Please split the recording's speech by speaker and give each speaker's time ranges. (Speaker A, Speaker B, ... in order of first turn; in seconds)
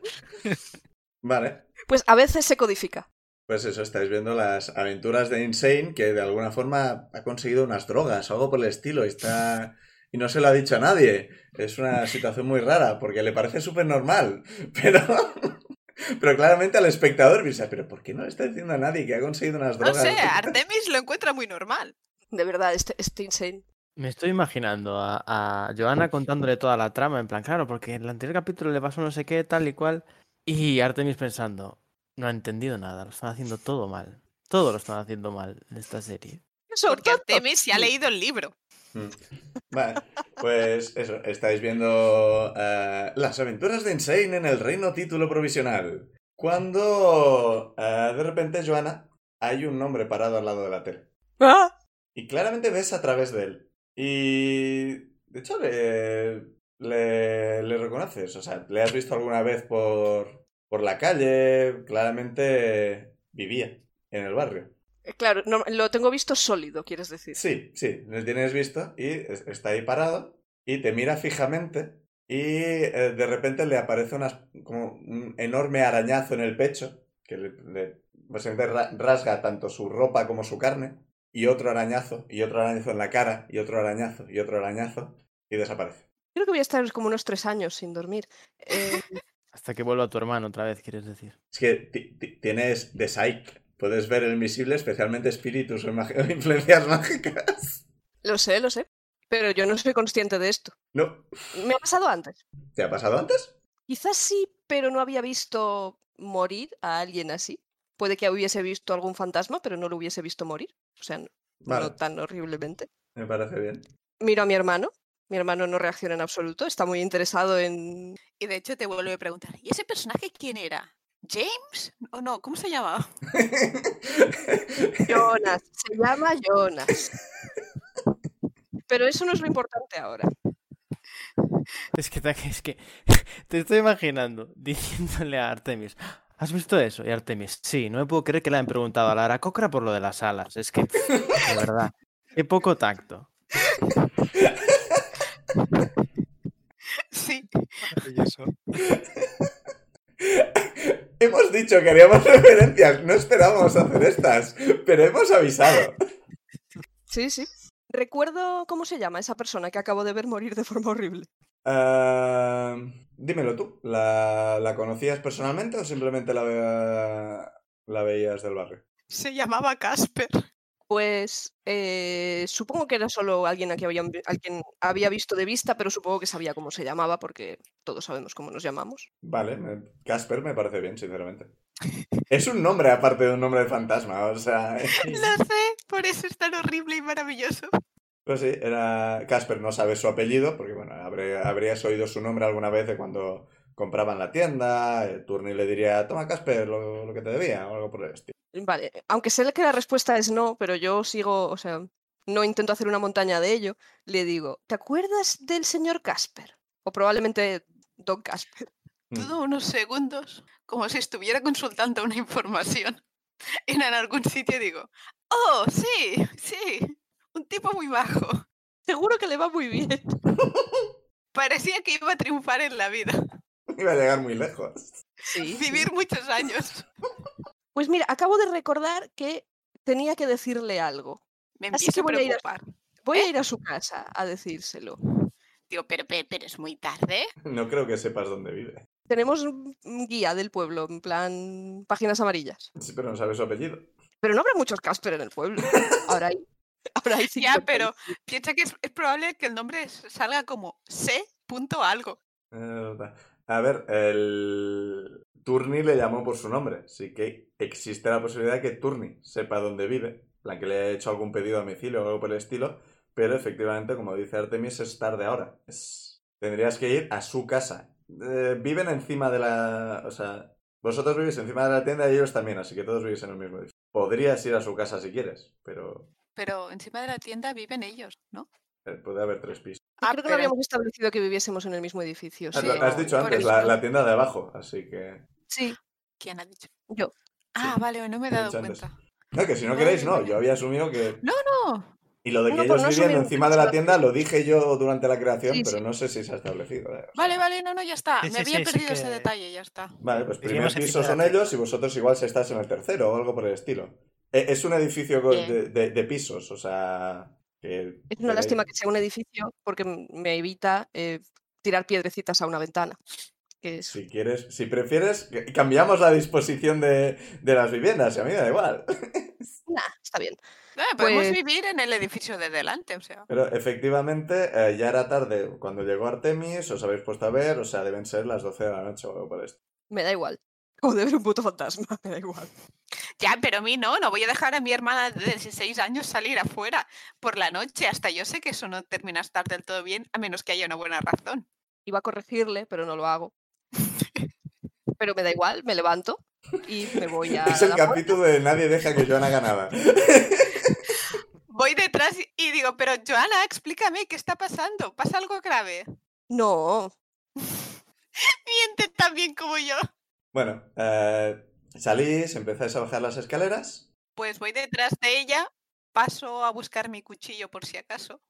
Speaker A: 1.2-1.7, 3.5-15.6, 16.2-20.5, 39.7-51.1, 52.1-64.7, 67.3-86.0, 91.5-97.8, 100.9-101.3, 102.7-103.5, 111.6-111.9, 113.1-113.9, 123.3-125.2, 144.4-145.1, 148.9-149.5, 150.2-156.0, 161.6-168.8, 179.2-181.5, 182.3-185.1, 188.2-198.3, 209.1-209.3, 220.6-220.8, 223.7-225.0, 237.4-238.8, 242.8-243.9, 252.5-276.1, 278.8-279.9, 282.5-285.2, 287.6-291.2, 292.2-297.4, 300.0-308.7, 313.9-319.5, 323.3-329.6, 347.4-351.0, 360.3-363.9
Speaker B: 1.9-3.1, 22.3-23.6, 36.7-37.9, 51.4-51.7, 65.1-67.4, 86.3-89.2, 98.2-100.7, 101.5-102.4, 103.9-112.9, 114.2-118.2, 125.1-127.0, 128.9-130.3, 157.1-161.3, 170.9-179.1, 198.5-208.7, 218.9-220.0, 225.2-225.9, 227.7-231.2, 231.7-232.4, 233.0-235.0, 239.1-242.7, 244.2-246.4, 247.0-248.2, 280.0-283.7, 285.5-285.8, 292.5-294.0, 295.5-295.8, 308.1-313.0, 313.6-314.0, 319.7-320.4, 321.0-321.4, 329.9-332.5, 341.9-343.3, 345.0-348.1, 356.3-356.9
Speaker C: 19.8-21.9, 36.9-38.5, 118.4-123.1, 147.1-147.9, 169.1-170.4, 185.0-187.7, 209.1-213.0, 213.7-218.4, 221.3-223.2, 225.4-226.8, 231.6-232.6, 235.7-237.3, 247.4-252.2, 276.3-278.5, 280.0-280.5, 282.5-283.8, 286.2-286.7, 287.5-288.9, 289.7-290.4, 291.2-292.0, 297.1-300.0, 305.3-305.6, 320.8-323.3, 333.2-341.5, 350.7-355.8, 357.4-357.7, 358.5-359.8, 364.2-368.2
Speaker D: 24.0-36.4, 89.5-91.3, 131.9-143.3
Speaker E: 147.8-148.8, 185.0-185.3, 298.2-299.3, 300.4-301.4